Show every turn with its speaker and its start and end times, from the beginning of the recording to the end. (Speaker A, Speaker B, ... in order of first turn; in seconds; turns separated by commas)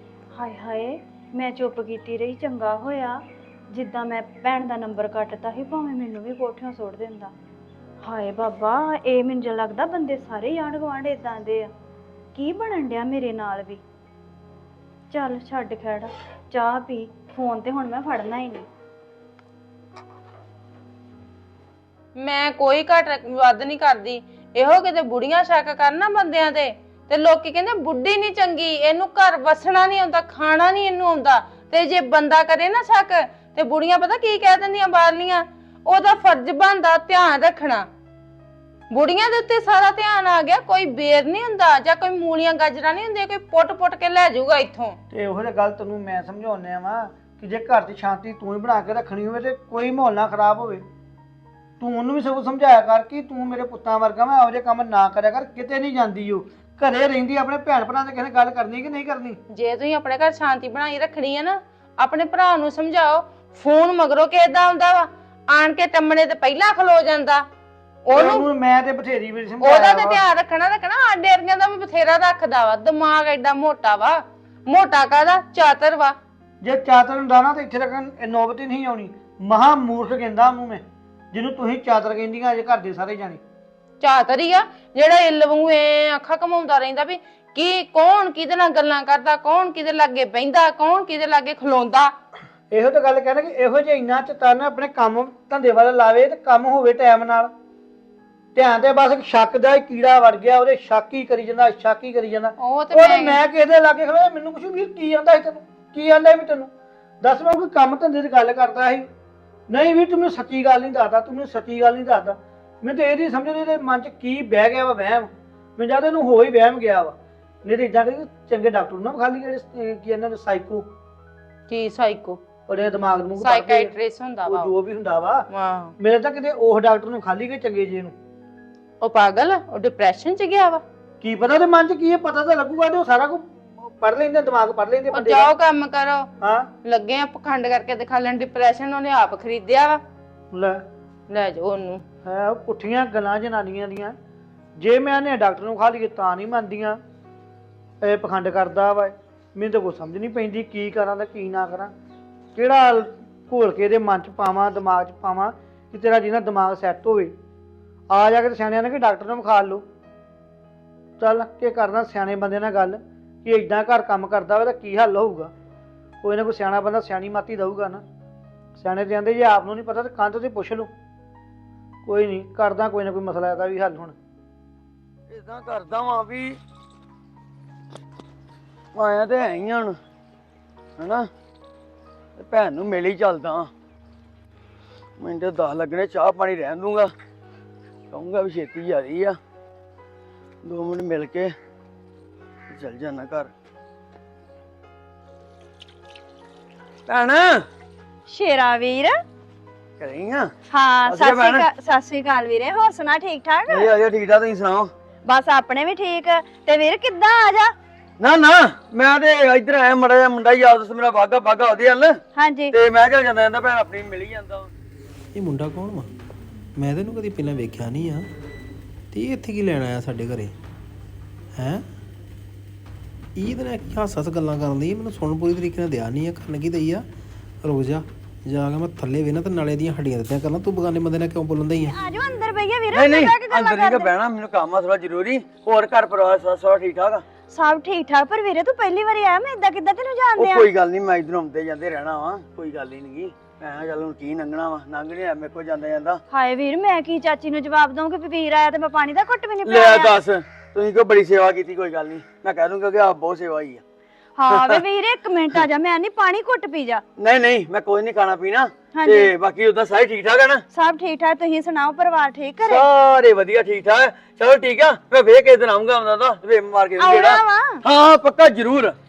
Speaker A: 0.3-7.3, Speaker A: 8.0-11.7, Speaker A: 12.3-13.8, Speaker A: 15.1-18.7, Speaker B: 22.2-37.8, Speaker B: 38.9-45.0, Speaker C: 45.1-50.8, Speaker C: 51.8-59.4, Speaker B: 59.5-67.4, Speaker B: 68.0-68.5, Speaker C: 68.1-70.2, Speaker B: 69.6-76.2, Speaker C: 76.6-83.4, Speaker B: 84.0-92.1, Speaker C: 92.7-97.5, Speaker C: 98.5-106.7, Speaker B: 102.6-103.4, Speaker C: 107.2-109.0, Speaker C: 109.7-120.9, Speaker B: 121.7-122.4, Speaker C: 122.7-123.9, Speaker B: 123.4-124.7, Speaker C: 124.5-125.5, Speaker B: 125.5-125.9, Speaker C: 126.0-128.1, Speaker B: 129.0-130.8, Speaker C: 131.2-135.5, Speaker B: 135.1-136.3, Speaker C: 136.4-136.7, Speaker B: 136.8-140.0, Speaker C: 140.5-140.8, Speaker B: 141.3-142.0, Speaker C: 142.2-144.1, Speaker C: 144.8-147.0, Speaker C: 148.0-151.9, Speaker C: 152.5-157.3, Speaker C: 158.1-159.8, Speaker C: 161.2-165.5, Speaker C: 166.2-168.0, Speaker C: 168.8-170.9, Speaker C: 172.1-174.1, Speaker D: 175.3-176.6, Speaker D: 178.9-180.0, Speaker D: 181.0-181.3, Speaker D: 182.4-183.7, Speaker D: 185.2-187.1, Speaker D: 188.1-189.4, Speaker D: 190.6-191.5, Speaker D: 192.7-193.5, Speaker D: 197.1-197.7, Speaker A: 198.3-199.2, Speaker D: 200.0-200.5, Speaker A: 200.7-203.9, Speaker D: 201.1-201.7, Speaker D: 203.7-204.9, Speaker A: 205.2-207.7, Speaker D: 208.2-212.2, Speaker A: 212.3-212.7, Speaker D: 212.7-214.7, Speaker E: 215.3-216.1, Speaker E: 216.8-218.2, Speaker E: 219.1-220.5, Speaker E: 221.6-221.8, Speaker E: 223.3-227.0, Speaker E: 227.6-232.0, Speaker A: 231.8-234.1, Speaker D: 232.9-237.2, Speaker A: 237.5-240.7, Speaker D: 240.3-246.2, Speaker A: 246.3-250.2, Speaker D: 249.6-253.8, Speaker A: 254.3-257.0, Speaker D: 254.5-254.8, Speaker D: 257.2-260.6, Speaker A: 258.9-259.3, Speaker A: 260.7-262.8, Speaker D: 262.6-268.9, Speaker A: 267.0-267.8